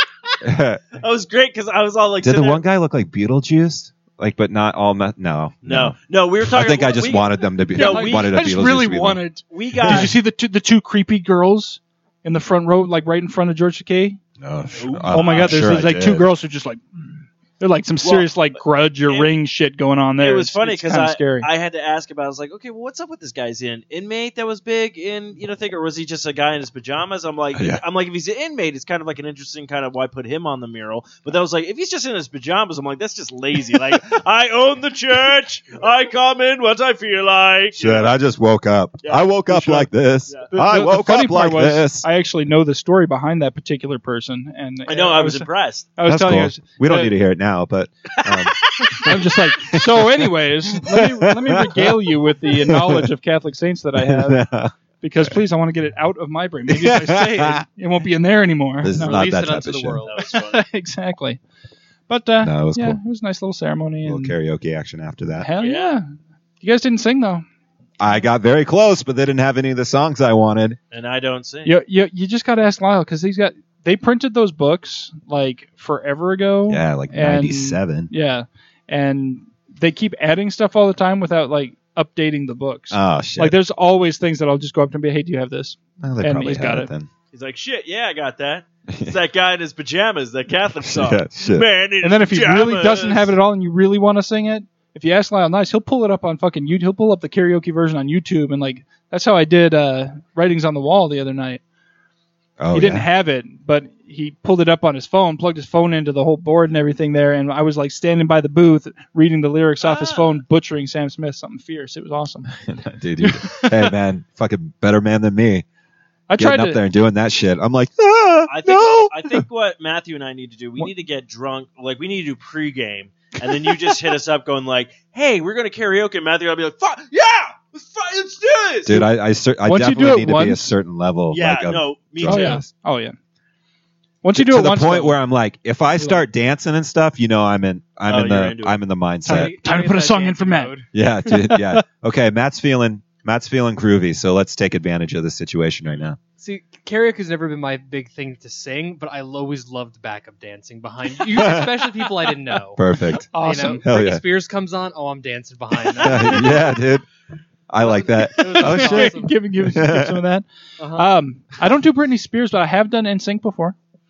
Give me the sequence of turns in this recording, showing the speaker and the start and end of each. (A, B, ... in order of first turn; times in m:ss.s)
0:00.4-0:00.9 A
0:01.0-0:02.6 B
0:02.2-0:09.2 A
0:05.6-0:08.4 B
0:07.7-0:14.2 C
0:09.5-0:10.1 B
0:14.4-0:16.3 A
0:14.8-0:15.8 B
0:15.1-0:21.5 C
0:18.0-0:18.3 B
0:20.2-0:38.2 B
0:27.5-0:27.8 A
0:37.8-0:42.0 A
0:39.0-0:39.3 B
0:39.5-0:39.9 C
0:40.5-0:47.1 C
0:44.9-0:45.9 B
0:46.0-0:53.1 A
0:48.2-0:49.2 B
0:49.0-0:59.2 C
0:54.0-0:54.7 A
0:56.7-0:57.6 A
0:58.8-1:00.0 A
0:58.9-1:00.2 D
1:00.0-1:00.6 B
1:00.2-1:01.4 C
1:02.1-1:04.3 C
1:02.4-1:03.0 A
1:04.0-1:05.5 A
1:05.4-1:06.0 C
1:05.6-1:06.0 B
1:06.6-1:07.4 C
1:08.0-1:10.8 A
1:10.9-1:11.7 B
1:11.6-1:26.9 C
1:16.7-1:18.1 A
1:22.9-1:23.6 A
1:26.0-1:27.1 A
1:27.3-1:33.3 B
1:30.8-1:31.6 A
1:32.0-1:41.6 C
1:42.6-1:43.1 A
1:42.7-1:52.5 C
1:49.8-1:50.4 B
1:52.6-1:55.6 A
1:53.2-1:53.9 C
1:56.3-1:56.8 C
1:56.4-1:59.4 A
1:58.5-2:09.1 B
2:08.8-2:12.7 A
2:09.6-2:10.7 C
2:11.3-2:12.6 B
2:12.2-2:13.2 C
2:14.2-2:15.2 C
2:14.3-2:19.5 A
2:16.0-2:16.2 C
2:18.1-2:18.8 B
2:19.2-2:20.8 C
2:19.2-2:21.0 D
2:20.9-2:26.2 A
2:21.5-2:21.8 C
2:26.4-2:36.8 D
2:32.8-2:33.3 A
2:33.3-2:33.8 C
2:33.8-2:34.2 A
2:36.0-2:37.0 A
2:37.7-2:40.2 A
2:37.8-2:39.4 D
2:38.4-2:43.8 C
2:40.8-2:41.1 D